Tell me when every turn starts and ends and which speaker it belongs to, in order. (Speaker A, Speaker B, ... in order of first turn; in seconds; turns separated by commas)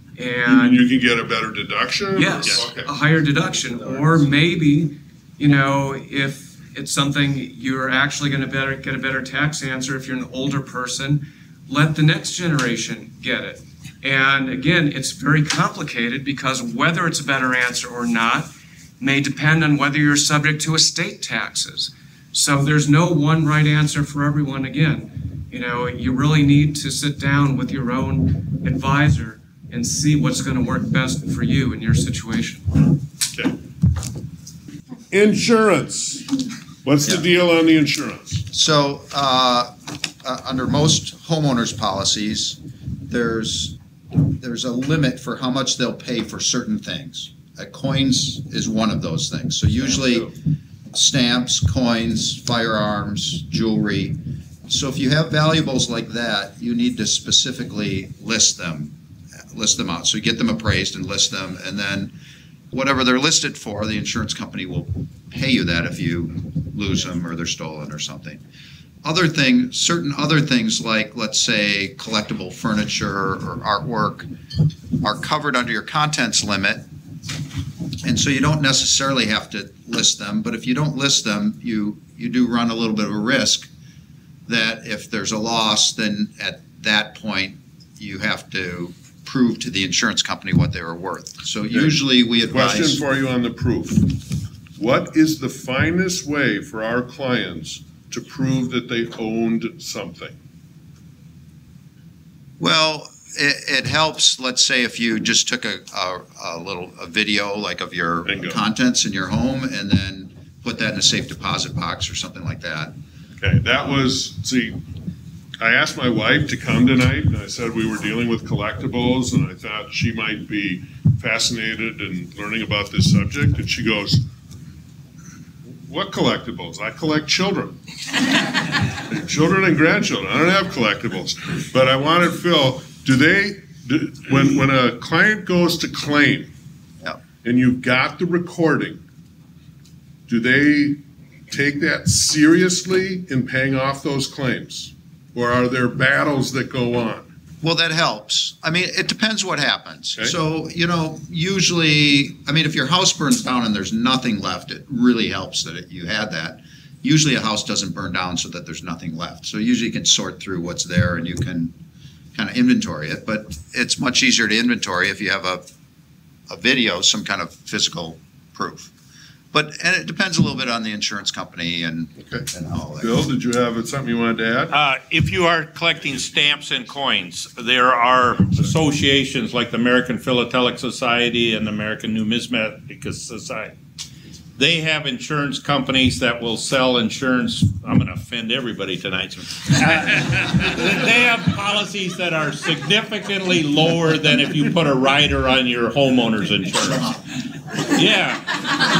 Speaker A: 0.1-0.9, Speaker B: 0.5-2.9, Speaker A: 2.1-32.7, Speaker B: 3.8-4.1, Speaker B: 33.3-33.5, Speaker B: 35.1-38.4, Speaker C: 38.5-50.3, Speaker B: 49.9-50.3, Speaker C: 50.9-58.9, Speaker C: 59.5-62.1, Speaker C: 62.7-68.4, Speaker C: 69.0-74.3, Speaker C: 75.0-76.8, Speaker C: 78.0-83.7, Speaker C: 84.5-93.0, Speaker B: 91.7-92.0, Speaker B: 92.5-94.2, Speaker B: 94.8-100.3, Speaker C: 102.6-112.9, Speaker B: 108.2-108.6, Speaker B: 113.4-114.8, Speaker B: 115.6-124.2, Speaker B: 125.7-127.8, Speaker B: 129.1-136.5, Speaker B: 137.4-139.0, Speaker B: 140.3-147.3, Speaker C: 147.6-161.7, Speaker C: 162.3-165.7, Speaker C: 166.5-168.9, Speaker C: 169.5-173.1, Speaker B: 172.2-172.4, Speaker B: 173.0-174.7, Speaker D: 174.7-183.8, Speaker D: 184.6-197.2, Speaker D: 197.9-198.4